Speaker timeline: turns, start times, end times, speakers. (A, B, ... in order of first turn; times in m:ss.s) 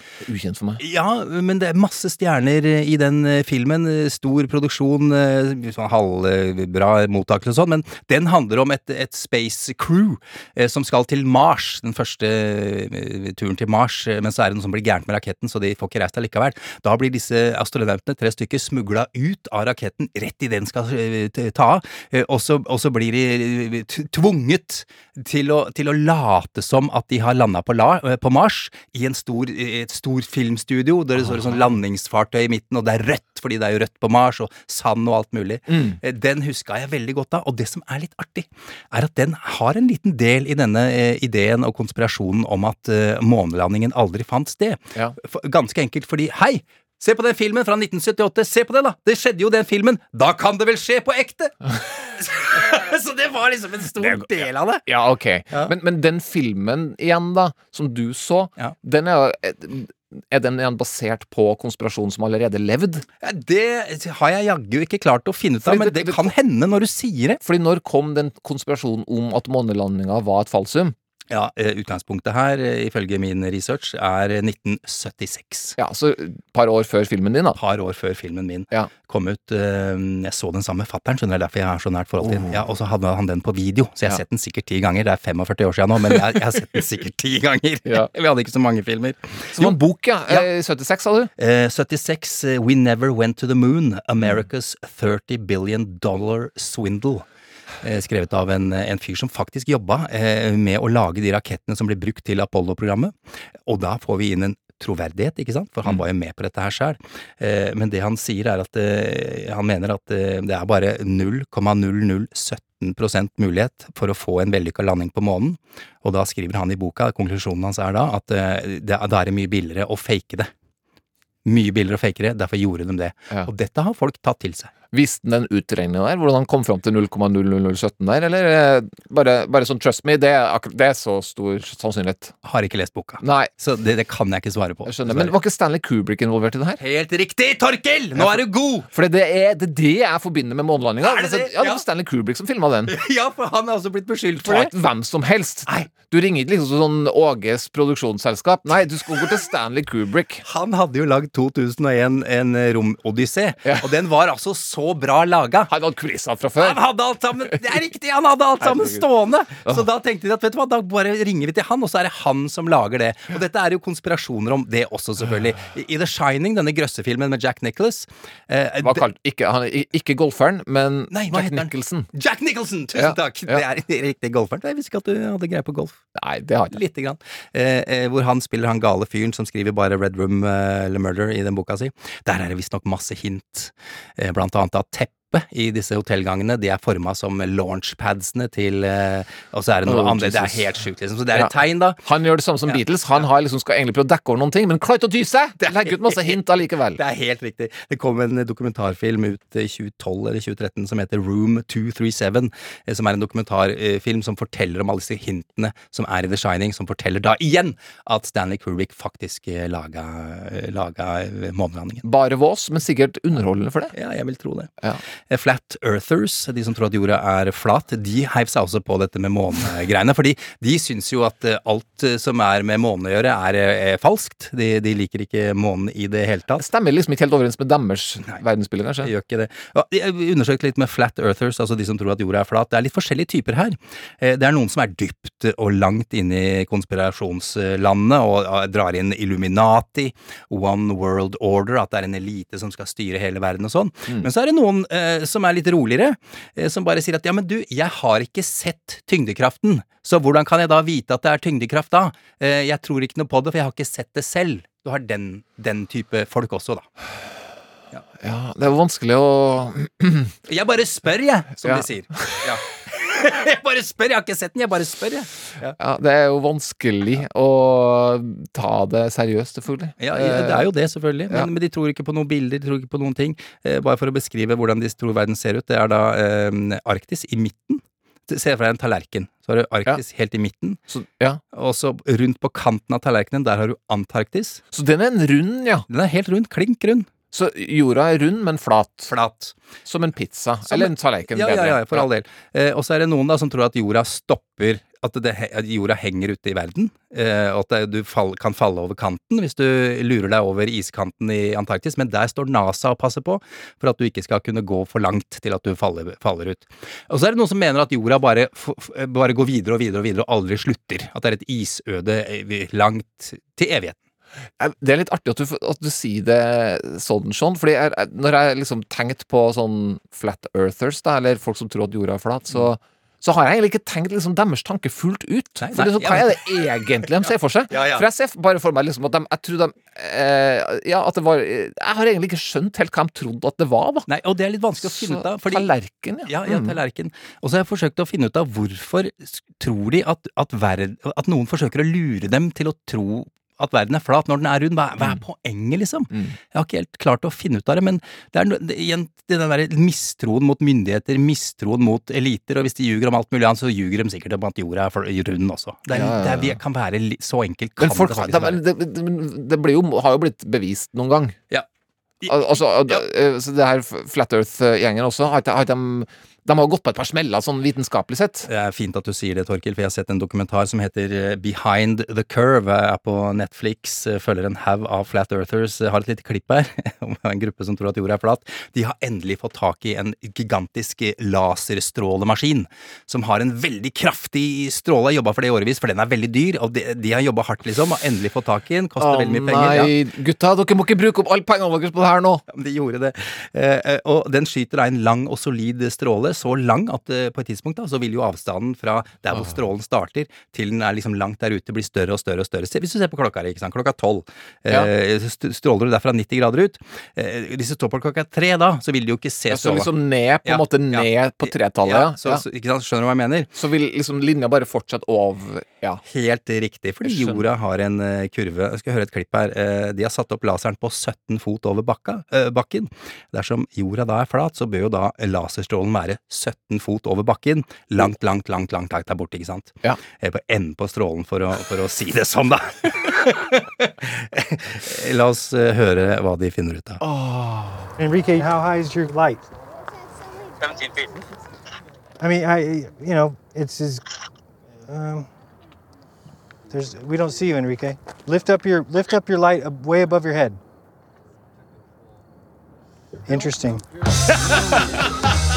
0:00.2-0:00.8 A
0:00.8-0:54.8 B
0:31.2-0:31.8 A
0:35.7-0:36.0 A
0:54.0-0:54.3 A
0:54.8-1:03.0 A
1:03.2-1:07.4 B
1:05.6-1:06.3 A
1:07.4-1:11.0 A
1:11.3-1:15.8 B
1:15.8-1:17.6 A
1:17.6-1:29.8 B
1:22.2-1:22.6 A
1:29.5-1:31.3 A
1:31.4-1:37.3 B
1:37.8-2:00.5 B
2:01.4-2:04.7 B
2:04.9-2:12.3 A
2:12.4-2:15.3 B
2:13.2-2:13.5 A
2:14.8-2:16.8 A
2:16.8-2:18.9 B
2:18.2-2:22.9 A
2:21.0-2:21.8 B
2:22.9-2:24.7 B
2:24.4-2:30.4 A
2:30.4-2:35.7 B
2:35.7-2:36.8 A
2:36.6-2:49.1 B
2:38.6-2:39.0 A
2:48.8-2:52.1 A
2:51.1-2:56.0 B
2:53.0-2:53.6 A
2:56.2-2:56.8 A
2:56.7-3:12.0 B
3:09.8-3:10.8 A
3:11.3-3:17.0 A
3:15.6-3:16.4 B
3:17.0-3:32.1 B
3:32.0-3:33.9 A
3:33.9-3:34.7 B
3:35.3-3:46.6 B
3:46.6-3:49.1 A
3:49.0-4:16.9 B
4:18.2-4:20.3 A
4:20.5-4:25.8 B
4:21.6-4:22.4 A
4:25.8-4:30.7 A
4:30.0-4:40.8 B
4:40.9-4:41.4 A
4:41.5-4:44.6 B
4:44.7-4:45.9 A
4:45.9-4:47.1 B
4:47.3-4:49.1 A
4:49.1-4:49.6 B
4:49.9-4:52.1 A
4:50.7-5:14.0 B
5:14.6-5:34.1 A
5:25.6-5:26.4 B
5:27.2-5:28.1 B
5:34.1-5:35.7 B
5:34.8-5:36.8 A
5:36.2-5:58.6 B
5:46.1-5:46.4 A
5:55.9-5:56.6 A
5:57.8-6:01.4 A
6:02.2-6:03.0 B
6:02.3-6:08.5 A
6:08.5-6:29.9 B
6:29.0-6:32.4 A
6:32.5-6:49.9 B
6:49.5-6:52.4 A
6:50.4-6:53.5 B
6:53.6-6:56.0 A
6:56.1-7:17.0 B
6:57.0-6:57.4 A
7:17.0-7:17.9 A
7:18.0-7:19.5 C
7:22.2-7:24.0 C
7:24.9-7:25.3 C
7:26.7-7:30.6 C
7:33.3-7:33.9 C
7:34.5-7:35.4 B